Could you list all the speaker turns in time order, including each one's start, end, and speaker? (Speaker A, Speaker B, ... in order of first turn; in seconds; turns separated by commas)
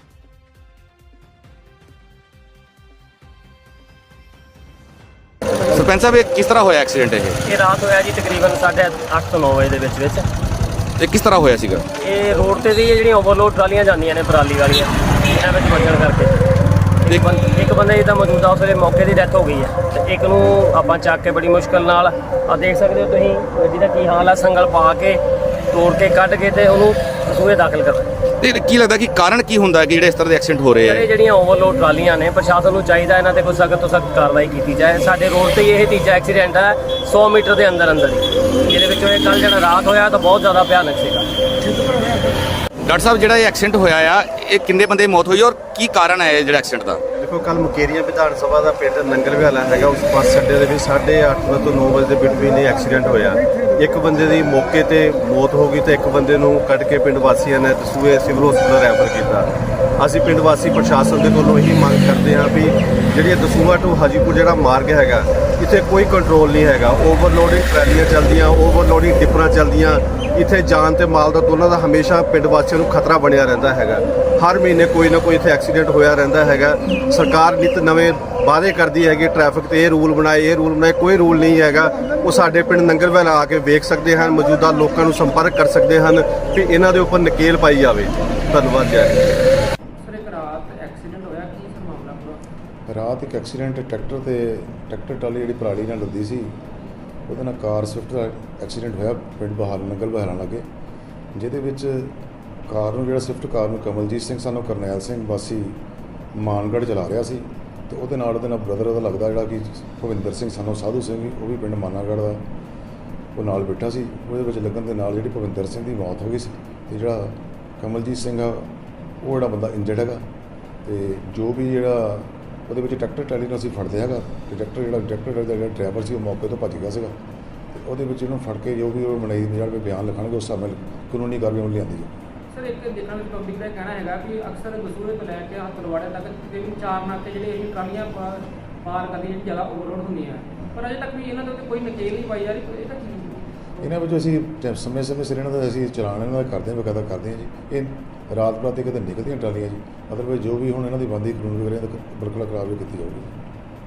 Speaker A: 5.7-7.4, Speaker B: 7.4-10.2, Speaker A: 11.0-11.8, Speaker B: 12.0-16.4, Speaker B: 17.0-25.2, Speaker B: 25.7-28.1, Speaker A: 28.4-31.1, Speaker B: 30.8-41.3, Speaker A: 42.8-47.0, Speaker C: 47.1-89.3, Speaker D: 90.0-92.4, Speaker E: 92.9-96.5, Speaker E: 97.3-100.7, Speaker E: 101.3-102.1, Speaker E: 102.7-105.8, Speaker E: 106.3-112.4, Speaker E: 113.3-118.7, Speaker E: 119.2-120.2, Speaker E: 120.8-127.1, Speaker E: 127.7-132.1, Speaker D: 132.5-143.7, Speaker E: 143.8-153.3